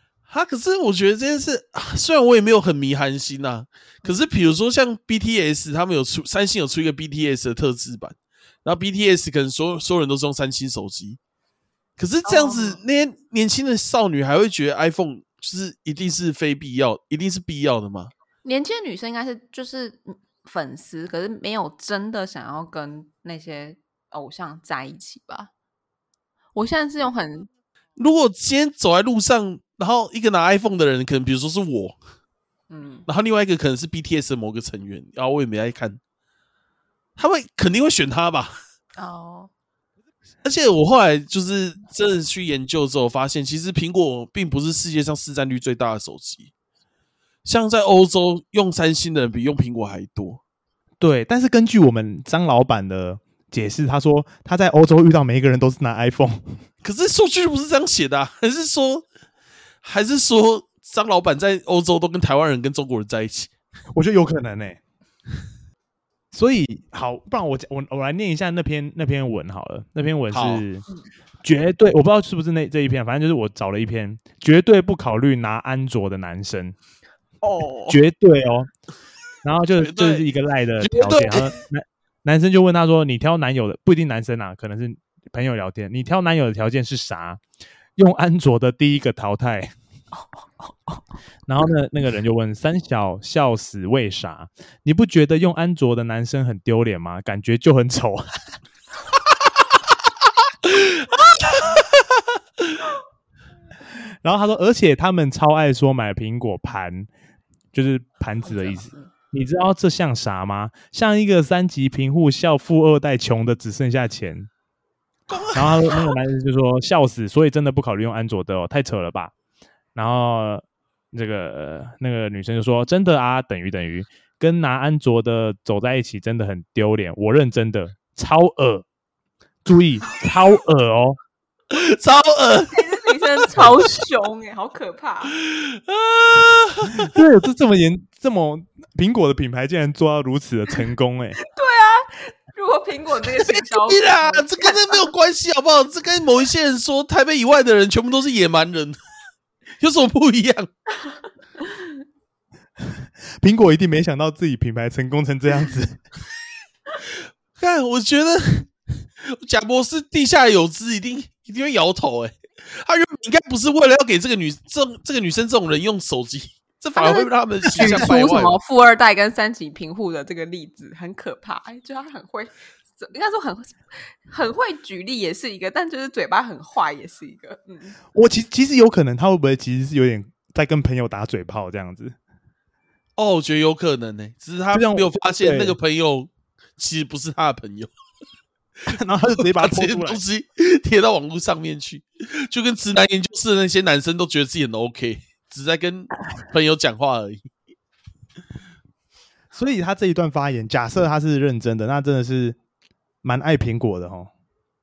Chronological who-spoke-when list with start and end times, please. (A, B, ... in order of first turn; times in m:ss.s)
0:00.3-0:11.2 A
0:12.0-0:18.1 A
0:12.2-0:12.8 B
0:18.4-0:25.5 B
0:26.6-0:27.5 B
0:28.0-0:32.0 A
0:32.7-0:33.1 B
0:33.1-0:36.0 A
0:37.2-0:38.6 A
0:39.0-0:39.5 B
0:40.4-0:46.5 A
0:47.4-0:50.4 A
0:51.0-0:56.6 C
0:56.8-0:59.1 A
0:59.8-1:03.5 A
1:03.9-1:04.8 C
1:06.3-1:10.8 C
1:10.3-1:10.6 A
1:11.4-1:16.8 C
1:17.4-1:18.0 B
1:17.9-1:18.7 C
1:19.4-1:27.4 C
1:19.8-1:20.2 A
1:20.8-1:21.5 A
1:28.0-1:29.7 C
1:30.1-1:31.0 B
1:31.5-1:38.3 C
1:40.6-1:42.0 A
1:44.2-1:47.1 C
1:47.7-1:54.5 C
1:48.4-1:49.1 B
1:55.3-1:56.2 A
1:55.5-1:59.3 C
2:00.0-2:08.9 C
2:09.6-2:11.2 C
2:11.7-2:13.6 A
2:12.7-2:15.4 B
2:15.3-2:17.2 A
2:17.0-2:21.4 C
2:21.4-2:25.1 B
2:23.4-2:29.0 A
2:29.8-2:30.7 A
2:32.9-2:36.0 C
2:37.0-2:48.6 A
2:47.0-2:58.0 B
2:47.7-2:48.1 C
2:58.1-3:02.2 C
3:03.2-3:07.9 A
3:04.7-3:05.8 C
3:08.9-3:10.2 C
3:09.2-3:17.5 A
3:19.5-3:22.6 C
3:23.2-3:24.3 C